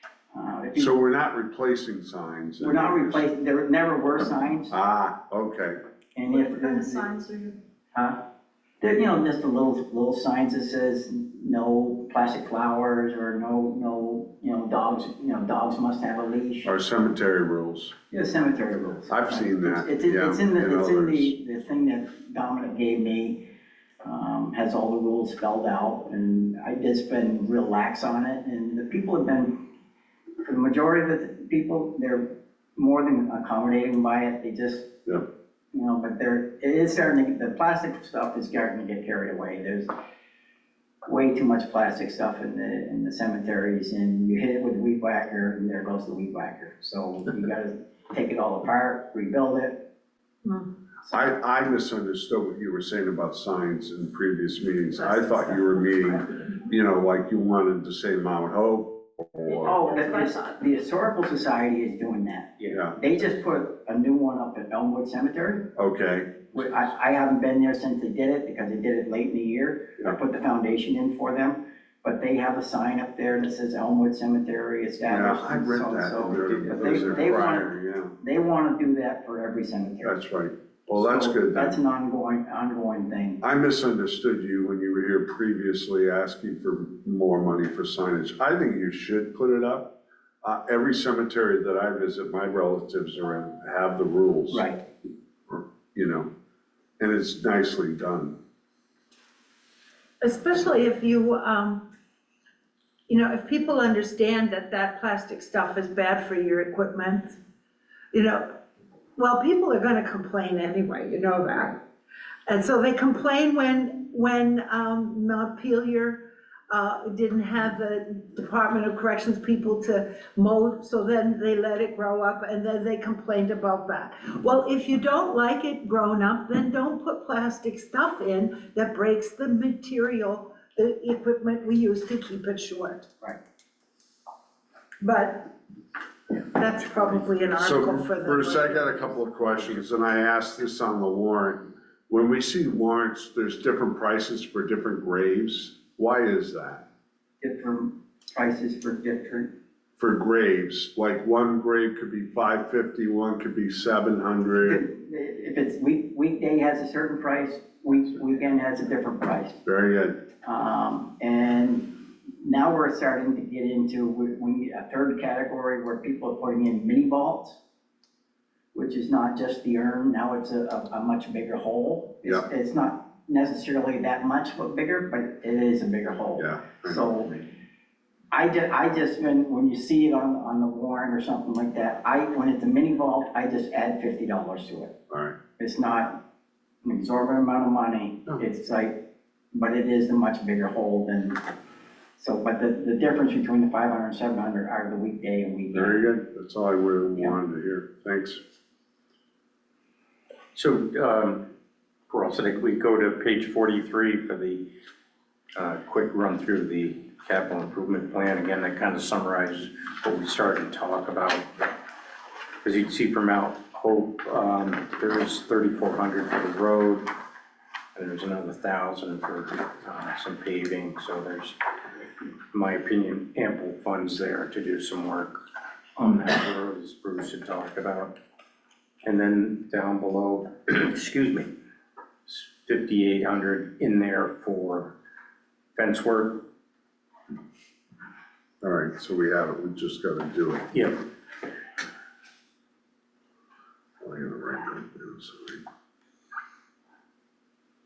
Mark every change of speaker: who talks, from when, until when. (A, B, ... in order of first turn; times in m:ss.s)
0:00.3-0:01.0 A
0:00.8-0:03.2 B
0:02.6-0:04.7 A
0:04.7-0:05.8 B
0:06.1-0:07.2 A
0:07.9-0:08.2 A
0:08.8-0:16.7 A
0:16.6-0:17.9 B
0:18.1-0:23.5 A
0:19.1-0:21.3 B
0:24.0-0:29.6 A
0:30.4-0:35.0 A
0:35.7-0:39.9 A
0:41.0-0:49.9 A
0:51.0-0:51.4 A
0:51.1-0:59.8 B
0:55.0-0:56.2 A
0:59.6-1:05.7 A
1:02.7-1:03.0 B
1:05.8-1:06.8 B
1:06.5-1:20.2 A
1:15.0-1:18.2 B
1:20.0-1:21.8 B
1:20.9-1:23.4 A
1:23.4-1:34.7 B
1:34.5-1:34.8 A
1:35.5-1:36.3 B
1:37.0-1:38.4 B
1:40.2-1:41.9 C
1:43.1-1:47.4 C
1:48.1-1:48.6 C
1:49.2-1:51.8 C
1:52.5-2:13.1 C
2:15.0-2:15.5 C
2:16.4-2:19.1 C
2:17.6-2:26.8 B
2:27.4-2:29.5 A
2:30.0-2:34.8 B
2:34.6-2:39.6 A
2:39.6-2:40.2 B
2:40.4-2:47.6 A
2:48.7-2:57.4 A
2:56.4-2:57.3 B
2:58.3-3:05.0 A
3:05.1-3:05.4 B
3:05.6-3:06.2 A
3:06.8-3:11.4 A
3:12.2-3:16.1 A
3:15.7-3:18.4 B
3:20.6-3:21.5 D
3:22.1-3:24.7 D
3:25.6-3:31.6 D
3:32.6-3:37.1 D
3:38.0-3:45.4 D
3:46.0-3:48.2 D
3:49.0-3:51.5 D
3:52.3-3:55.0 D
3:55.8-3:56.5 D
3:58.6-4:00.7 B
4:00.7-4:01.0 D
4:04.0-4:05.6 B